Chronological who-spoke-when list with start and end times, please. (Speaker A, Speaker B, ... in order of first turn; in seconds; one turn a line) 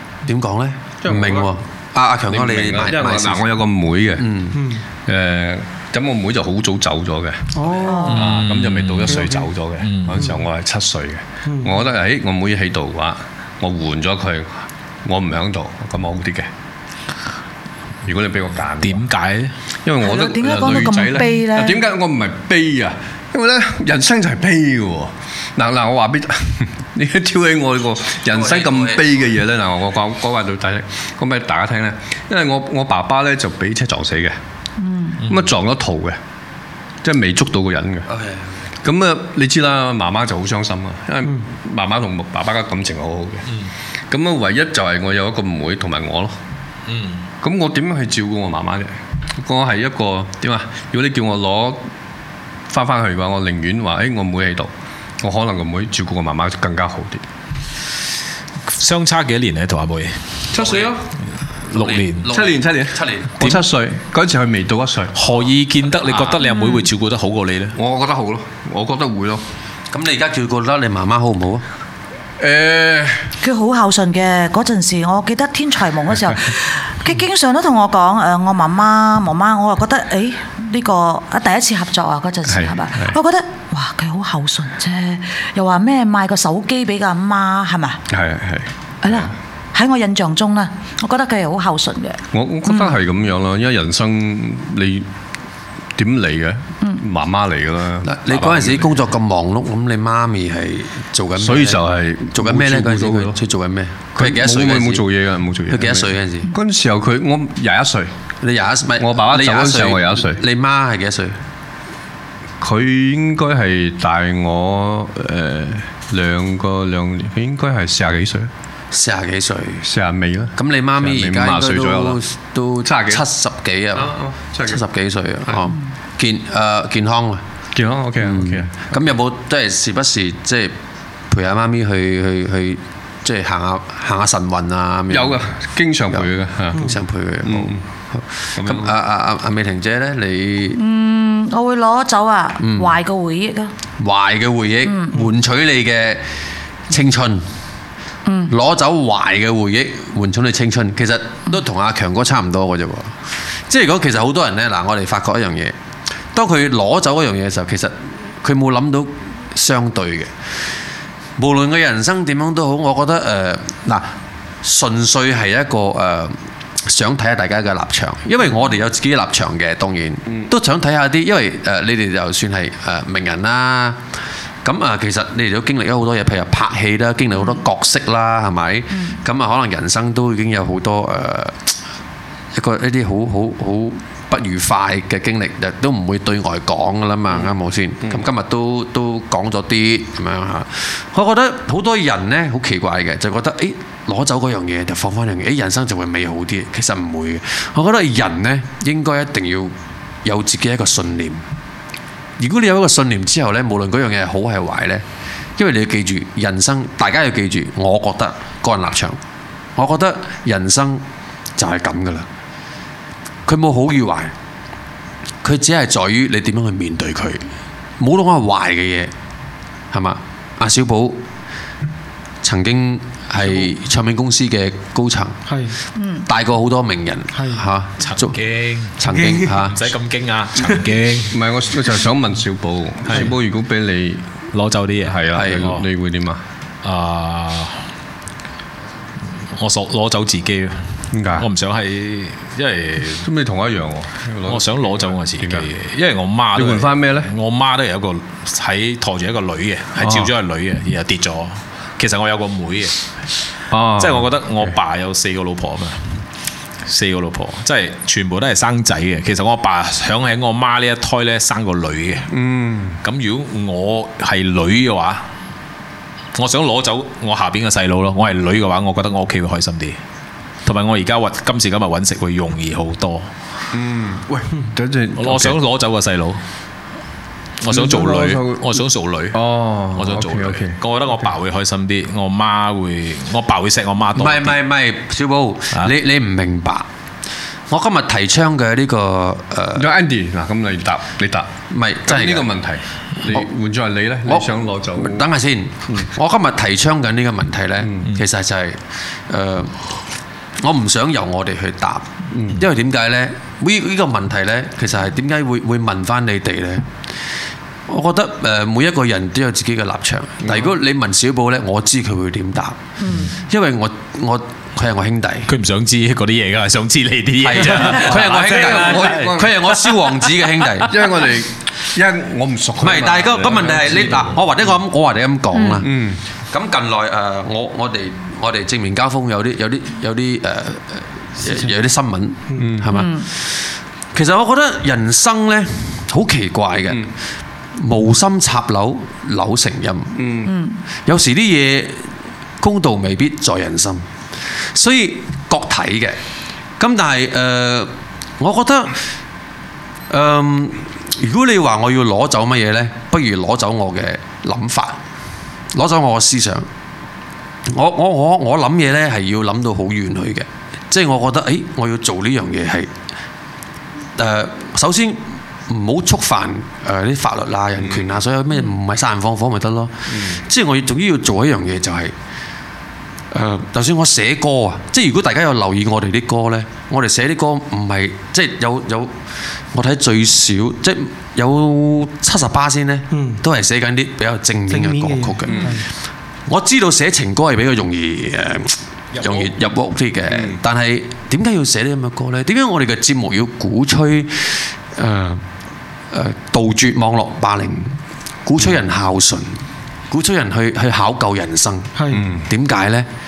Speaker A: 0.3-3.5
Speaker B: 1.0-1.5
Speaker B: 2.3-4.3
Speaker A: 4.2-4.6
Speaker B: 5.0-16.5
Speaker C: 7.5-8.3
Speaker D: 7.8-8.2
Speaker E: 8.1-9.3
Speaker E: 9.8-10.3
Speaker C: 11.5-11.7
Speaker B: 18.1-19.0
Speaker E: 18.8-19.5
Speaker B: 19.8-34.4
Speaker D: 20.0-21.8
Speaker A: 28.3-29.0
Speaker D: 34.8-35.2
Speaker B: 35.2-36.2
Speaker B: 37.0-38.1
Speaker A: 38.1-38.5
Speaker B: 38.8-43.5
Speaker B: 44.1-46.4
Speaker E: 46.9-47.3
Speaker B: 47.4-51.8
Speaker B: 52.7-57.2
Speaker E: 58.7-60.4
Speaker B: 60.5-61.1
Speaker A: 60.6-60.9
Speaker E: 61.7-62.3
Speaker A: 61.7-63.5
Speaker B: 62.3-65.2
Speaker E: 65.2-67.8
Speaker D: 66.4-66.9
Speaker B: 67.7-69.4
Speaker A: 69.9-71.6
Speaker B: 72.4-73.3
Speaker D: 73.4-88.0
Speaker B: 82.5-83.2
Speaker B: 88.1-89.3
Speaker D: 89.0-93.0
Speaker B: 92.3-95.1
Speaker B: 96.0-99.0
Speaker A: 98.0-105.0
Speaker B: 101.3-103.4
Speaker B: 104.2-108.1
Speaker A: 105.7-106.5
Speaker A: 108.4-111.4
Speaker B: 109.0-110.4
Speaker B: 112.6-118.5
Speaker A: 118.9-119.9
Speaker B: 119.8-122.2
Speaker A: 120.6-127.4
Speaker B: 122.8-123.3
Speaker B: 123.9-124.8
Speaker B: 127.7-128.7
Speaker A: 128.2-130.7
Speaker A: 131.3-135.4
Speaker B: 135.1-136.9
Speaker A: 136.1-140.8
Speaker B: 137.4-137.8
Speaker B: 138.6-138.9
Speaker D: 140.7-143.7
Speaker A: 142.6-142.9
Speaker A: 144.0-146.2
Speaker D: 144.8-145.1
Speaker A: 146.9-147.4
Speaker D: 148.3-148.5
Speaker A: 148.5-153.2
Speaker A: 153.7-155.7
Speaker A: 156.3-160.3
Speaker A: 161.4-164.1
Speaker A: 164.6-174.0
Speaker A: 174.6-181.7
Speaker A: 182.5-201.4
Speaker A: 202.4-205.0
Speaker A: 205.6-209.2
Speaker A: 209.8-211.0
Speaker A: 211.6-212.3
Speaker A: 213.4-214.3
Speaker A: 215.4-217.5
Speaker A: 218.0-219.1
Speaker A: 219.9-221.2
Speaker A: 222.4-225.4
Speaker B: 223.4-223.7
Speaker C: 225.5-225.8
Speaker D: 225.9-226.3
Speaker A: 226.3-228.4
Speaker C: 227.3-227.6
Speaker E: 228.0-229.0
Speaker A: 229.0-229.8
Speaker C: 229.1-229.5
Speaker E: 229.5-231.3
Speaker B: 231.3-234.3
Speaker E: 233.1-233.3
Speaker E: 234.5-235.8
Speaker B: 235.0-236.4
Speaker A: 235.4-235.7
Speaker E: 236.8-237.8
Speaker E: 239.6-243.3
Speaker B: 241.1-241.5
Speaker B: 243.2-245.7
Speaker E: 244.5-252.9
Speaker B: 246.5-247.3
Speaker B: 250.0-250.3
Speaker B: 253.7-254.8
Speaker E: 254.0-256.2
Speaker E: 256.9-262.3
Speaker B: 262.3-263.0
Speaker E: 263.0-265.2
Speaker E: 266.3-270.0
Speaker E: 270.6-273.3
Speaker B: 273.7-275.6
Speaker E: 275.2-276.4
Speaker E: 277.6-279.4
Speaker B: 277.7-280.8
Speaker E: 279.9-284.6
Speaker A: 284.1-286.9
Speaker A: 287.7-289.9
Speaker B: 289.7-291.5
Speaker A: 291.7-292.5
Speaker B: 292.1-295.3
Speaker A: 294.3-299.9
Speaker B: 297.8-298.1
Speaker A: 300.6-306.9
Speaker B: 302.3-302.6
Speaker A: 307.9-312.8
Speaker B: 310.4-310.7
Speaker D: 313.0-313.3
Speaker A: 313.4-315.5
Speaker E: 315.5-319.9
Speaker A: 317.4-320.9
Speaker B: 317.7-319.6
Speaker B: 320.9-324.5
Speaker A: 322.8-326.0
Speaker D: 325.5-325.8
Speaker B: 325.8-326.2
Speaker A: 326.5-333.6
Speaker B: 332.6-332.9
Speaker D: 332.9-333.3
Speaker A: 334.1-337.1
Speaker A: 337.8-340.1
Speaker B: 340.1-340.5
Speaker D: 340.4-340.8
Speaker A: 341.1-342.1
Speaker A: 342.6-344.1
Speaker A: 344.7-346.2
Speaker A: 346.8-349.0
Speaker A: 350.1-355.0
Speaker A: 355.7-356.7
Speaker A: 357.7-362.9
Speaker A: 364.1-372.1
Speaker B: 367.8-368.1
Speaker B: 370.1-370.4
Speaker A: 373.3-379.1
Speaker A: 379.7-385.8
Speaker C: 383.1-383.4
Speaker C: 384.7-385.8
Speaker B: 385.4-385.8
Speaker A: 386.5-395.4
Speaker E: 389.1-389.5
Speaker B: 390.3-390.6
Speaker A: 396.1-403.1
Speaker C: 401.9-402.2
Speaker B: 402.1-402.5